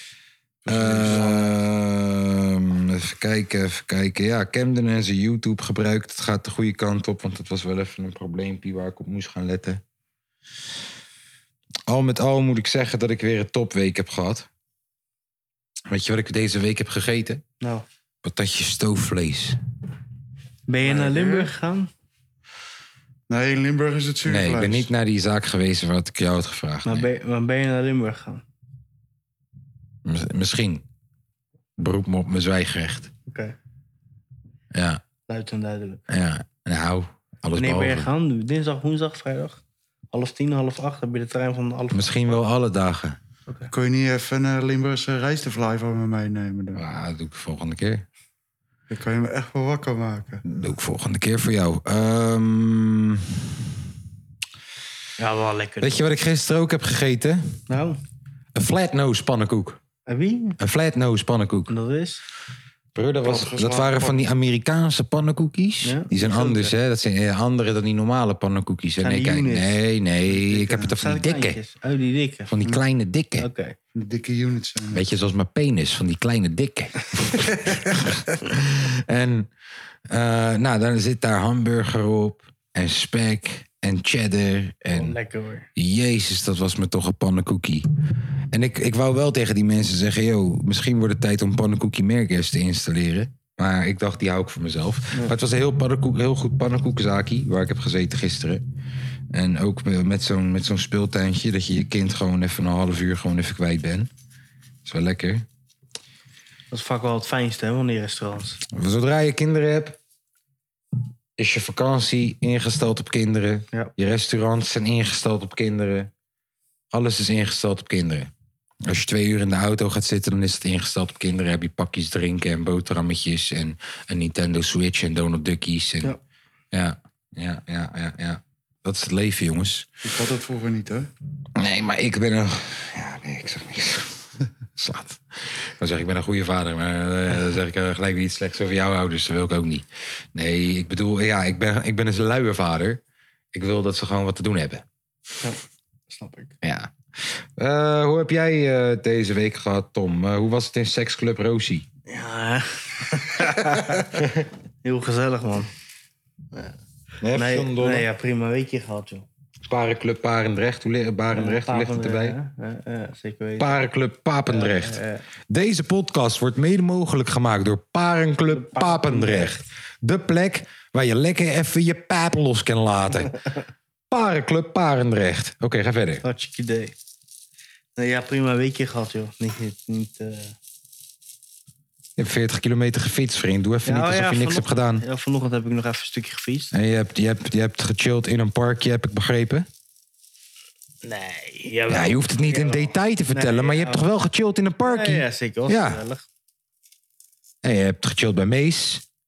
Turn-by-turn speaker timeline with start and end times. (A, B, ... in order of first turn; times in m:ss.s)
0:00.6-0:01.5 A
0:00.7-0:09.8 B
0:11.9-0:14.5 B
0:15.9-0:17.4 B
0:18.2-0:19.6 B
0:20.7-0:21.9 C
0:20.8-0:21.5 A
0:23.3-0:24.9 A
0:24.2-0:27.1 B
0:26.8-0:28.4 C
0:30.0-0:30.8 B
0:31.8-0:33.1 B
0:33.3-0:33.5 C
0:34.7-0:35.0 B
0:35.3-0:36.0 C
0:36.1-0:38.1 B
0:37.6-0:39.6 C
0:40.1-0:42.4 C
0:41.9-0:43.2 B
0:43.7-0:46.8 A
0:46.7-0:48.0 B
0:48.9-0:50.4 A
0:50.4-0:53.5 B
0:55.2-0:56.0 C
0:55.8-0:57.5 B
0:57.7-0:58.0 C
0:58.5-0:59.8 B
1:00.1-1:00.6 C
1:00.6-1:01.7 B
1:01.7-1:02.2 C
1:02.9-1:11.6 B
1:03.2-1:04.2 A
1:05.8-1:06.7 C
1:09.0-1:09.8 C
1:10.3-1:10.9 A
1:11.0-1:12.6 C
1:12.5-1:13.5 B
1:13.4-1:13.7 C
1:13.9-1:15.0 A
1:14.9-1:19.5 B
1:20.1-1:25.1 B
1:24.9-1:25.7 C
1:25.7-1:27.8 B
1:28.5-1:38.6 B
1:39.3-1:44.1 B
1:44.8-1:45.4 B
1:46.7-1:48.6 C
1:48.7-1:50.0 B
1:51.4-1:56.1 B
1:56.9-1:58.3 B
1:58.9-2:06.2 B
2:06.7-2:09.9 B
2:10.0-2:11.1 A
2:11.5-2:23.0 B
2:23.5-2:24.8 B
2:25.4-2:26.5 C
2:26.6-2:26.9 B
2:27.6-2:31.8 B
2:32.1-2:34.1 C
2:34.0-2:34.5 B
2:34.8-2:35.7 C
2:37.2-2:38.0 B
2:37.3-2:39.3 C
2:39.6-2:42.4 B
2:41.3-2:43.8 C
2:43.6-2:53.3 B
2:44.5-2:45.2 C
2:48.5-2:49.6 C
2:54.1-2:56.2 B
2:56.2-2:56.9 C
2:58.0-3:00.6 C
3:02.2-3:05.0 B
3:03.8-3:06.7 C
3:06.7-3:09.7 B
3:11.0-3:14.1 C
3:11.9-3:16.0 B
3:14.8-3:16.2 C
3:17.6-3:19.0 B